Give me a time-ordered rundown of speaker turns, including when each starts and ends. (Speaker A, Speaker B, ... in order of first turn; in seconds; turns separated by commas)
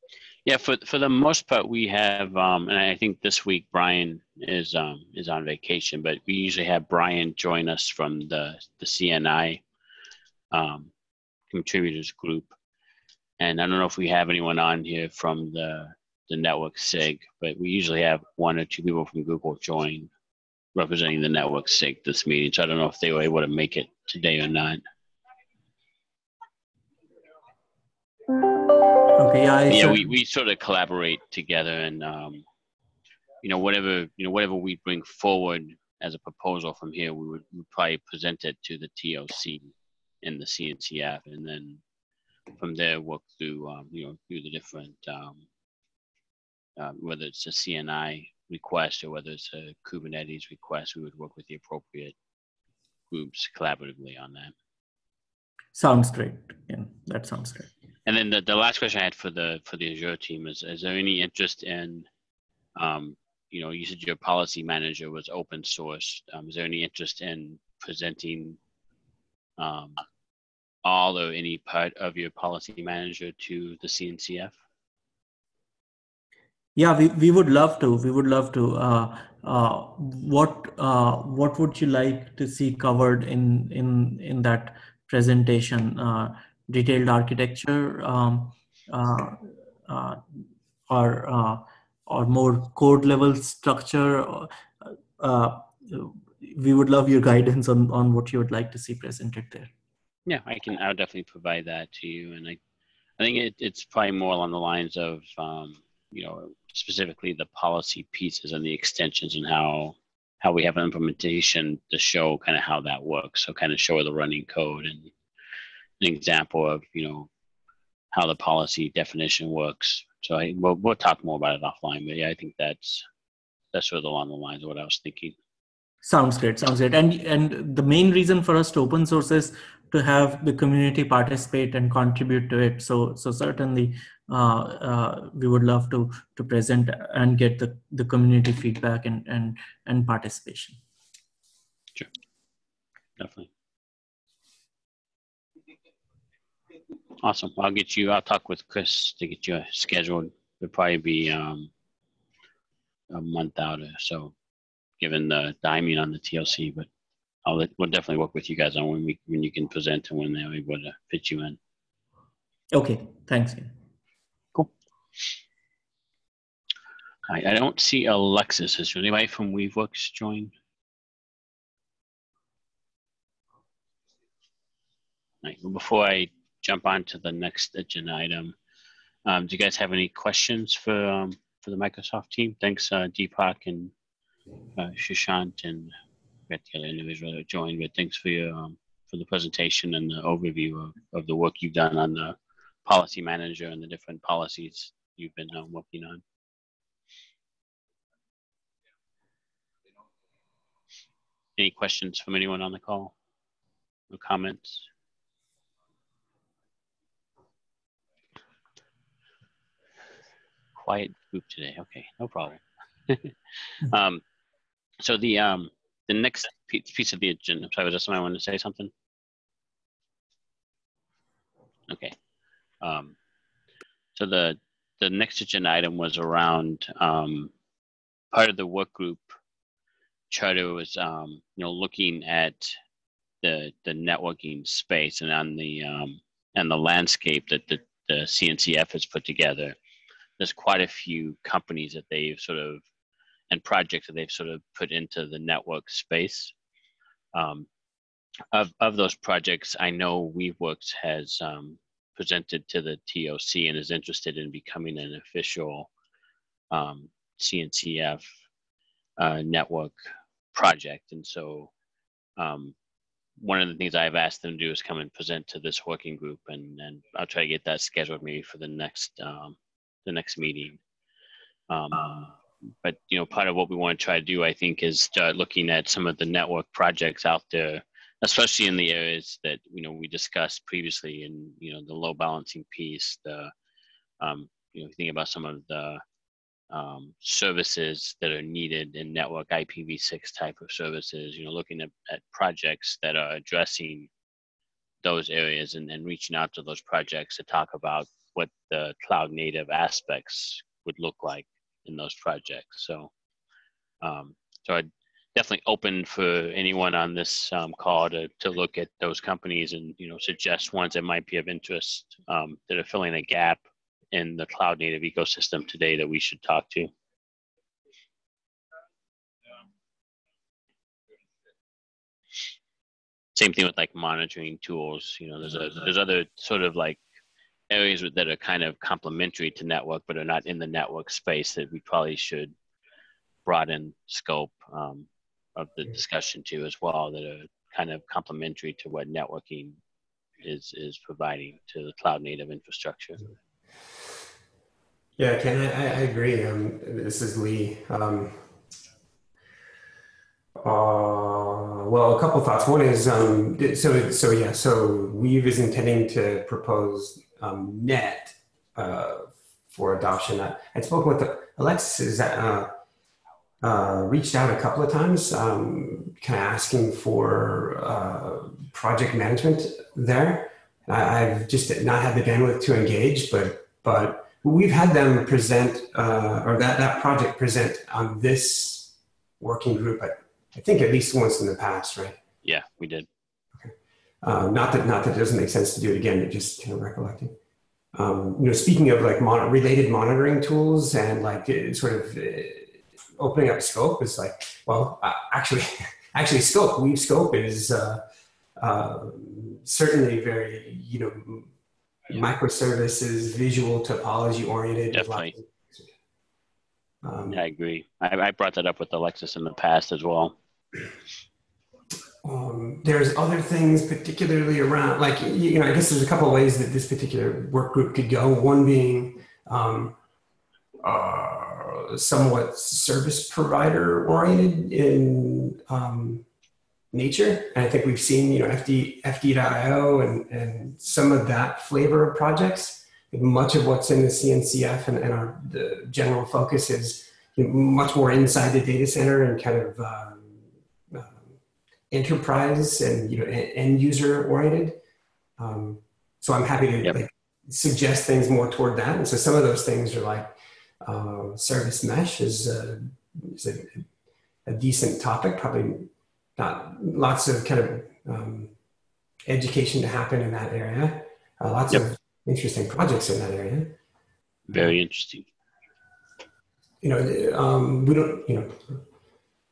Speaker A: 0.4-9.6, Speaker A: 10.5-10.9, Speaker A: 11.5-12.5, Speaker A: 13.4-20.1, Speaker A: 20.7-24.8, Speaker B: 29.1-30.1, Speaker A: 29.7-32.4, Speaker A: 33.4-39.7, Speaker A: 40.2-41.8, Speaker A: 42.5-45.4, Speaker A: 46.8-52.1, Speaker A: 53.1-54.5, Speaker B: 55.7-57.7, Speaker A: 58.0-62.1, Speaker A: 62.8-68.6, Speaker A: 69.6-70.0, Speaker A: 70.8-74.5, Speaker B: 76.8-90.2, Speaker B: 90.9-99.7, Speaker A: 100.2-102.6, Speaker A: 103.2-115.1, Speaker A: 116.0-117.3, Speaker A: 118.1-123.0, Speaker A: 123.7-125.3, Speaker B: 126.0-140.8, Speaker A: 143.2-143.5, Speaker A: 147.2-151.7, Speaker A: 153.1-154.3, Speaker A: 155.0-156.9, Speaker A: 157.4-161.6, Speaker B: 162.7-163.7, Speaker A: 167.3-170.5, Speaker A: 175.4-178.5, Speaker A: 179.2-183.9, Speaker A: 184.8-185.9, Speaker A: 186.5-196.2, Speaker A: 201.6-203.1, Speaker A: 204.1-204.9, Speaker A: 210.8-214.2, Speaker A: 215.0-218.9, Speaker A: 221.9-222.2, Speaker A: 222.8-223.1, Speaker A: 224.1-227.5, Speaker A: 228.3-229.4, Speaker A: 230.3-232.8, Speaker A: 233.4-239.8, Speaker A: 240.4-242.8, Speaker A: 243.5-246.5, Speaker A: 247.3-247.7, Speaker A: 248.5-255.9, Speaker A: 256.7-258.2, Speaker A: 259.2-259.9, Speaker A: 260.5-261.7, Speaker A: 262.4-262.7, Speaker A: 263.4-270.8, Speaker A: 271.7-283.5, Speaker A: 284.2-286.0, Speaker A: 286.7-294.1, Speaker A: 295.0-303.1, Speaker A: 304.0-316.9, Speaker A: 323.4-327.0, Speaker A: 327.7-332.5, Speaker A: 333.4-339.8, Speaker A: 340.4-343.2, Speaker C: 345.2-348.5, Speaker C: 350.6-362.7, Speaker C: 363.6-382.2, Speaker A: 382.4-383.1, Speaker C: 383.6-387.3, Speaker C: 387.9-398.0, Speaker C: 398.6-401.5, Speaker C: 402.1-405.9, Speaker A: 404.9-405.3, Speaker C: 407.0-407.4, Speaker A: 407.3-410.4, Speaker C: 412.2-419.9, Speaker C: 420.8-426.2, Speaker C: 426.9-440.4, Speaker C: 440.9-441.3, Speaker C: 441.9-444.8, Speaker C: 445.4-453.9, Speaker C: 454.4-458.5, Speaker C: 459.2-463.8, Speaker A: 464.5-465.3, Speaker C: 466.8-468.8